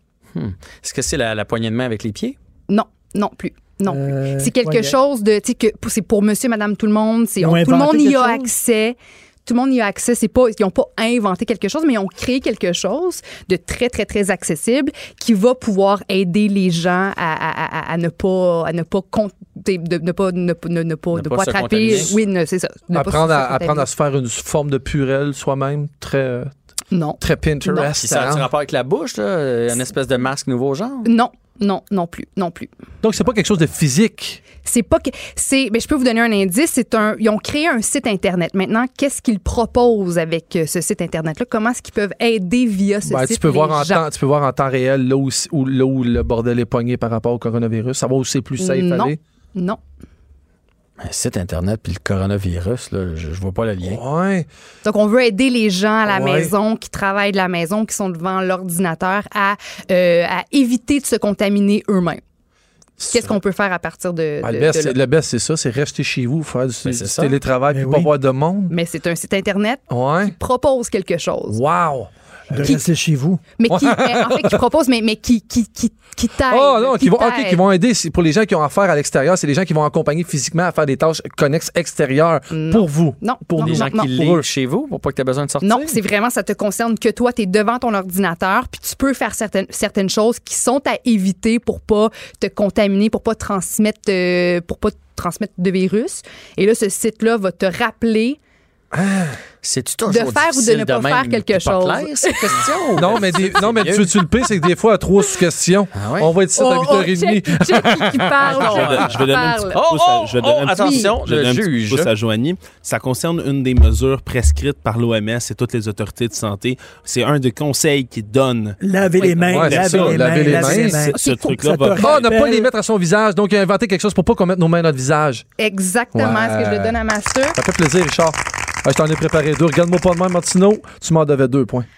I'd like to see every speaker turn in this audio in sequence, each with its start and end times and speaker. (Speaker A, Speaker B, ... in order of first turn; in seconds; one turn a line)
Speaker A: 0.3-2.4
Speaker B: 2.7-23.9
Speaker C: 3.9-5.0
Speaker C: 7.4-8.5
Speaker A: 21.1-22.2
Speaker D: 22.9-26.5
Speaker B: 26.9-27.9
Speaker D: 27.2-28.5
Speaker A: 28.0-31.1
Speaker B: 31.1-32.7
Speaker D: 33.0-34.4
Speaker B: 34.6-44.0
Speaker D: 43.0-49.2
Speaker B: 48.6-49.8
Speaker A: 51.0-54.0
Speaker D: 53.8-54.5
Speaker B: 54.9-62.2
Speaker D: 56.1-56.5
Speaker D: 63.0-63.4
Speaker B: 63.1-65.0
Speaker D: 64.4-68.8
Speaker A: 66.8-67.4
Speaker C: 67.7-68.1
Speaker B: 68.7-71.6
Speaker D: 69.9-70.3
Speaker D: 71.5-72.1
Speaker C: 72.5-73.4
Speaker B: 73.6-77.6
Speaker D: 73.7-74.6
Speaker D: 76.5-84.5
Speaker B: 82.5-84.1
Speaker A: 83.6-86.0
Speaker B: 85.6-98.4
Speaker D: 98.9-99.4
Speaker A: 99.6-104.1
Speaker B: 100.1-102.6
Speaker D: 103.0-108.7
Speaker A: 105.9-106.3
Speaker B: 106.6-109.8
Speaker A: 108.4-109.2
Speaker E: 108.5-122.1
Speaker A: 109.7-112.1
Speaker B: 110.8-111.1
Speaker C: 118.8-122.7
Speaker B: 119.2-119.5
Speaker D: 119.5-121.1
Speaker B: 121.2-121.5
Speaker D: 122.0-125.5
Speaker B: 125.6-127.6
Speaker D: 126.1-127.0
Speaker D: 127.6-131.9